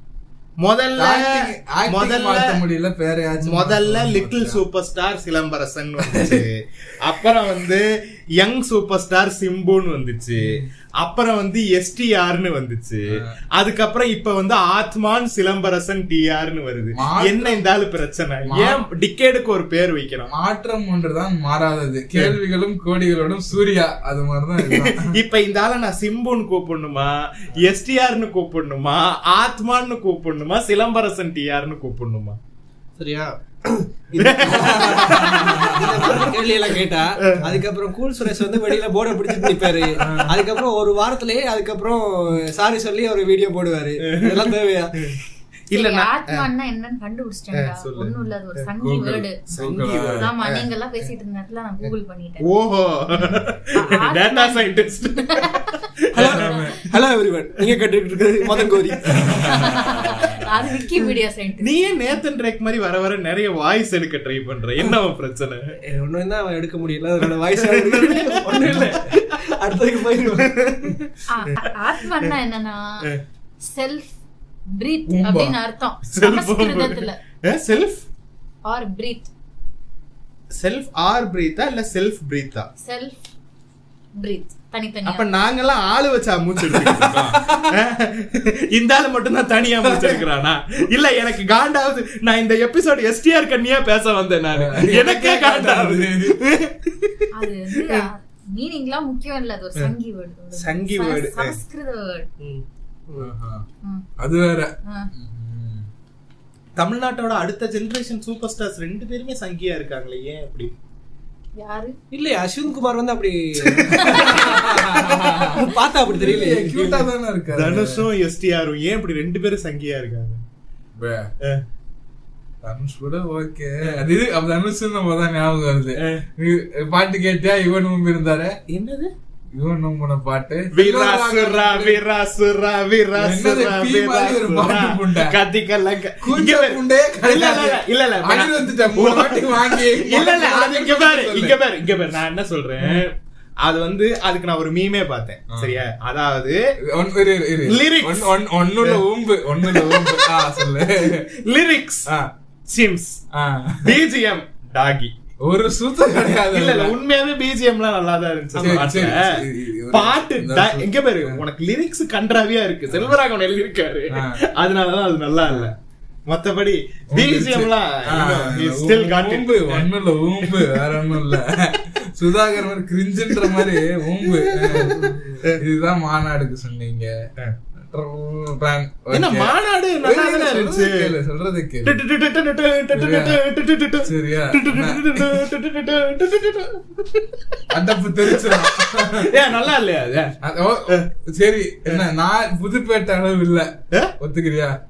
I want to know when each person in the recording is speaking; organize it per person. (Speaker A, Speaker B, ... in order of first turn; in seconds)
Speaker A: 0.6-2.6, 3.4-7.9, 8.4-20.3, 24.7-32.4, 34.2-36.3, 37.3-37.7, 38.4-38.7, 39.3-39.9, 44.0-45.2, 45.7-46.5, 47.5-48.7, 49.5-50.7, 52.4-56.6, 58.8-59.2, 61.6-65.6, 67.2-69.2, 70.4-71.0, 76.1-78.0, 80.5-82.7, 85.0-98.1, 100.5-101.6, 106.8-110.7, 117.5-120.4, 126.0-126.3, 128.7-129.1, 130.7-146.6, 147.7-149.1, 149.6-152.1, 152.7-153.2, 153.8-155.1, 156.5-165.8, 166.3-169.9, 170.4-171.4, 174.2-175.6, 179.1-181.1, 181.8-187.6, 188.3-190.3
Speaker B: 1.0-4.6, 6.1-6.4, 10.4-10.7, 17.0-17.7, 18.5-18.8, 20.3-25.1, 34.5-36.3, 40.0-40.5, 48.8-50.3, 56.1-56.9, 59.1-60.3, 68.6-68.9, 75.1-75.6, 86.7-87.7, 94.6-96.3, 103.2-103.7, 104.2-105.9, 114.0-118.0, 121.0-121.3, 122.6-128.6, 129.6-132.0, 133.2-135.4, 136.2-141.6, 145.5-145.8, 146.9-151.3, 153.3-154.0, 155.4-156.9, 158.6-161.4, 164.1-164.4, 165.5-165.7, 167.1-177.2, 177.8-182.0, 182.9-183.4, 184.1-185.3, 187.7-189.3, 190.4-194.8
Speaker C: 33.0-45.0, 56.9-59.1, 65.8-70.9, 102.4-103.3, 112.1-117.0, 174.9-175.4
Speaker D: 45.7-49.4, 50.1-52.5, 53.8-55.6, 59.4-62.2, 71.3-73.1, 73.6-74.2, 74.7-77.2, 78.7-79.3, 82.8-83.2, 84.2-85.3, 97.3-102.3, 104.8-105.1, 111.6-112.0, 113.9-114.3